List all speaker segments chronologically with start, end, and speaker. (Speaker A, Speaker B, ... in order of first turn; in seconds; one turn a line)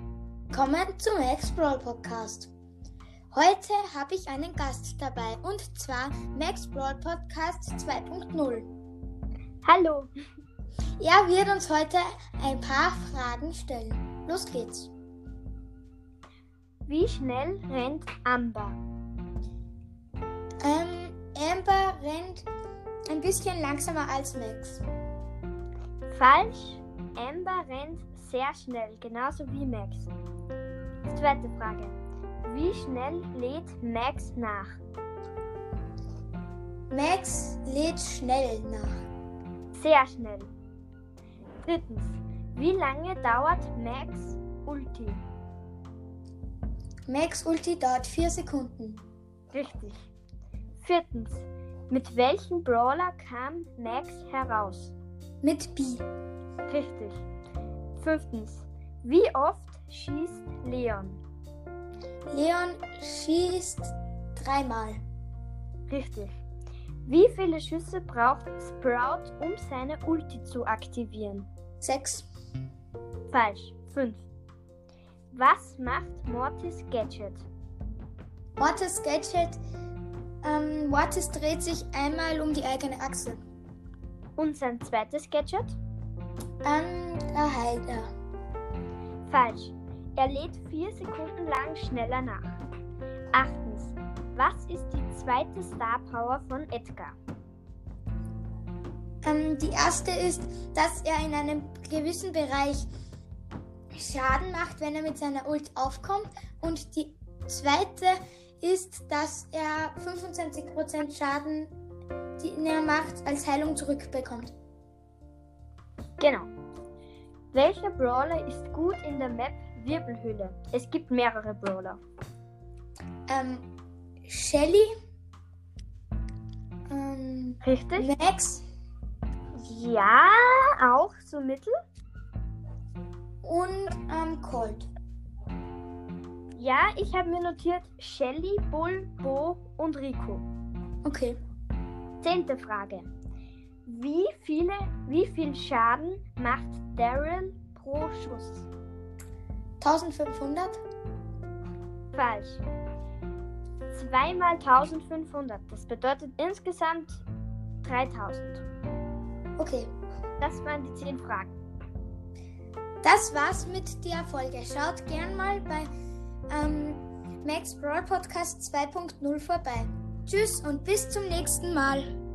Speaker A: 0.5-2.5
Speaker A: 3.3-8.7
Speaker B: 9.6-10.1
Speaker A: 11.0-14.9
Speaker B: 16.9-18.8
Speaker A: 20.6-22.4
Speaker A: 23.1-24.8
Speaker B: 26.1-30.1
Speaker B: 31.1-34.8
Speaker A: 36.9-38.9
Speaker B: 39.7-40.5
Speaker B: 41.6-45.2
Speaker A: 47.1-49.0
Speaker B: 49.5-50.0
Speaker B: 50.8-55.0
Speaker A: 55.4-56.1
Speaker B: 56.7-57.2
Speaker B: 58.0-61.2
Speaker A: 62.3-65.0
Speaker B: 65.9-66.3
Speaker B: 67.1-71.5
Speaker A: 71.8-72.3
Speaker B: 73.3-74.2
Speaker B: 75.3-77.5
Speaker A: 78.6-79.6
Speaker A: 80.4-83.4
Speaker B: 84.4-85.8
Speaker A: 86.6-88.1
Speaker B: 89.2-92.5
Speaker B: 93.3-97.2
Speaker A: 99.2-102.9
Speaker A: 104.0-111.7
Speaker A: 112.4-114.5
Speaker B: 116.2-116.5
Speaker B: 117.5-122.0
Speaker A: 123.3-123.7
Speaker A: 124.3-124.9
Speaker A: 126.9-128.6
Speaker B: 127.6-128.1
Speaker B: 129.6-131.7
Speaker A: 133.4-134.9
Speaker B: 136.6-140.4
Speaker A: 141.0-141.4
Speaker B: 142.2-143.1
Speaker B: 143.9-148.7
Speaker A: 149.8-150.8
Speaker B: 152.1-152.6
Speaker B: 153.9-157.2
Speaker B: 157.8-158.6
Speaker A: 159.6-159.9
Speaker B: 160.4-161.5
Speaker A: 163.0-165.9
Speaker A: 166.5-172.1